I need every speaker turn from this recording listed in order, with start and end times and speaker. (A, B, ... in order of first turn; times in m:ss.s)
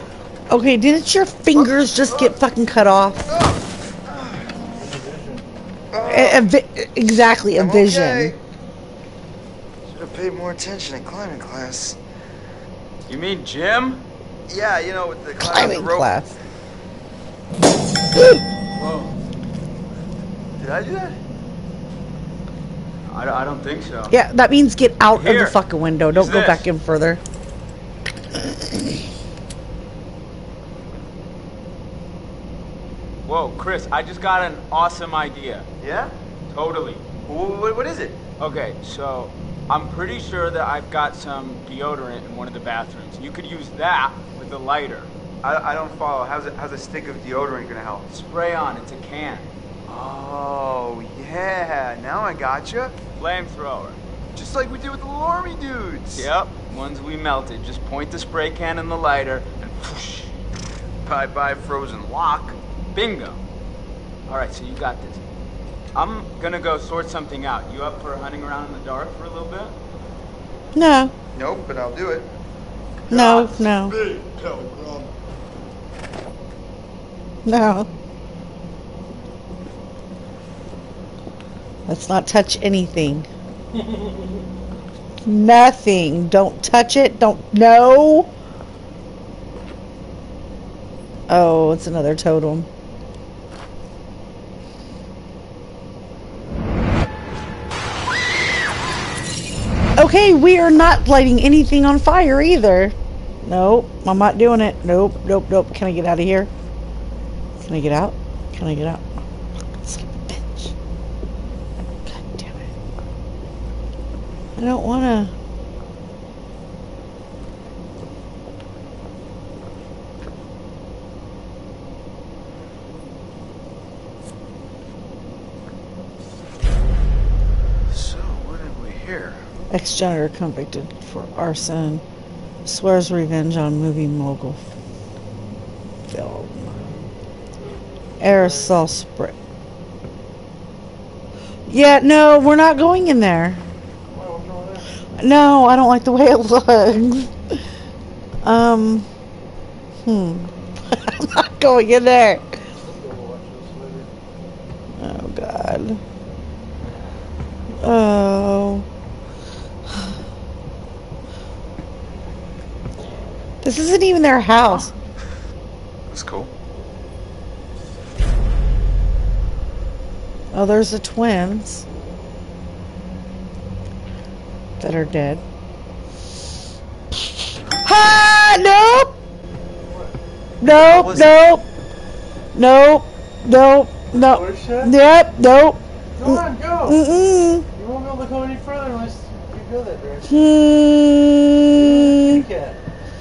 0:00.5-0:03.2 A
0:01.5-0:02.4 B
0:03.3-0:04.6 B
0:04.8-0:05.5 C
0:05.9-0:06.4 B
0:06.0-0:08.4 A
0:07.5-0:08.4 B
0:09.9-0:12.0 B
0:13.1-0:14.0 D
0:14.5-0:16.1 B
0:15.4-0:16.4 A
0:20.6-0:21.2 B
0:23.1-0:24.2 D
0:24.1-0:27.2 A
0:25.1-0:26.7 D
0:33.2-0:35.7 D
0:35.8-0:36.1 B
0:36.5-0:37.0 D
0:37.2-0:38.2 B
0:38.4-0:45.1 D
0:45.4-0:48.1 B
0:48.1-0:49.5 D
0:49.9-0:53.0 B
0:53.2-0:54.0 D
0:54.3-0:56.3 B
0:56.1-1:00.4 D
1:01.0-1:03.4 D
1:04.3-1:05.2 D
1:05.9-1:09.8 D
1:10.7-1:11.1 A
1:11.3-1:12.3 B
1:13.1-1:14.0 A
1:13.1-1:15.1 C
1:17.4-1:17.9 A
1:21.9-1:23.3 A
1:25.2-1:28.3 A
1:31.3-1:32.7 A
1:40.0-1:46.5 A
1:47.6-1:49.2 A
1:49.8-1:50.7 A
1:52.0-1:52.7 A
1:54.6-1:55.3 A
2:07.9-2:09.4 B
2:09.7-2:12.0 A
2:12.6-2:14.6 A
2:16.1-2:16.8 A
2:18.2-2:19.4 A
2:18.2-2:18.7 C
2:21.7-2:23.6 A
2:24.1-2:25.0 C
2:25.1-2:27.6 A
2:28.4-2:29.1 A
2:30.0-2:32.6 A
2:32.8-2:34.1 C
2:35.0-2:36.0 A
2:37.8-2:38.8 A
2:43.6-2:44.9 A
2:46.1-2:46.5 B
2:50.5-2:51.8 A
2:54.8-2:55.4 A
2:57.8-2:59.2 A
2:59.8-3:00.2 C
3:00.6-3:01.6 A
3:00.7-3:01.3 B
3:02.5-3:07.7 A
3:04.1-3:04.9 C
3:06.2-3:07.0 C
3:07.7-3:10.4 C
3:10.2-3:12.5 A
3:11.7-3:12.8 C